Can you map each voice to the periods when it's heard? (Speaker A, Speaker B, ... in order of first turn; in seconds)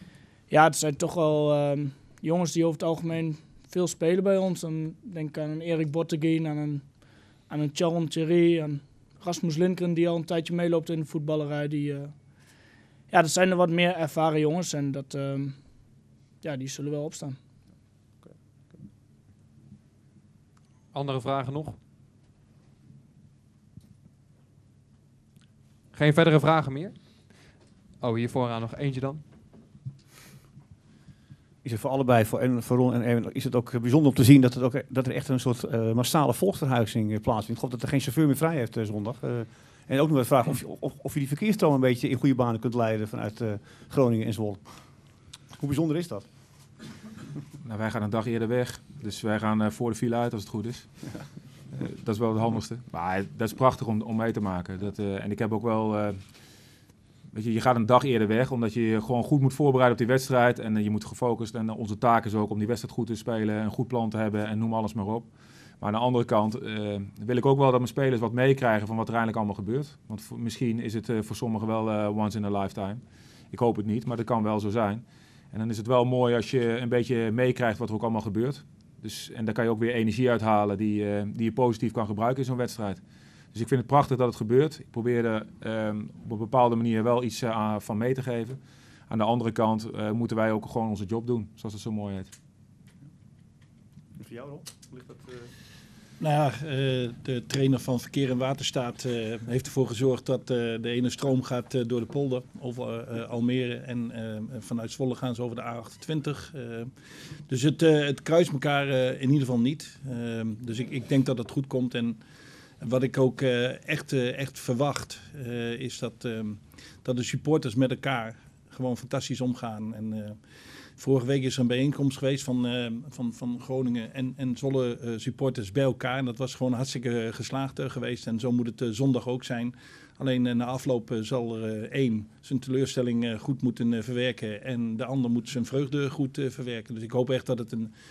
Speaker A: 0.5-6.8, 7.5-12.1, 13.1-15.6, 16.4-17.4
Speaker B: 20.9-21.8, 25.9-27.0, 28.0-29.2
Speaker C: 31.6-44.6, 45.6-46.2, 94.2-95.5
Speaker D: 47.6-50.9, 51.7-56.2, 57.3-65.3, 65.8-83.0, 83.5-92.3
Speaker E: 96.2-106.9, 107.5-112.2, 112.8-120.4, 121.0-137.9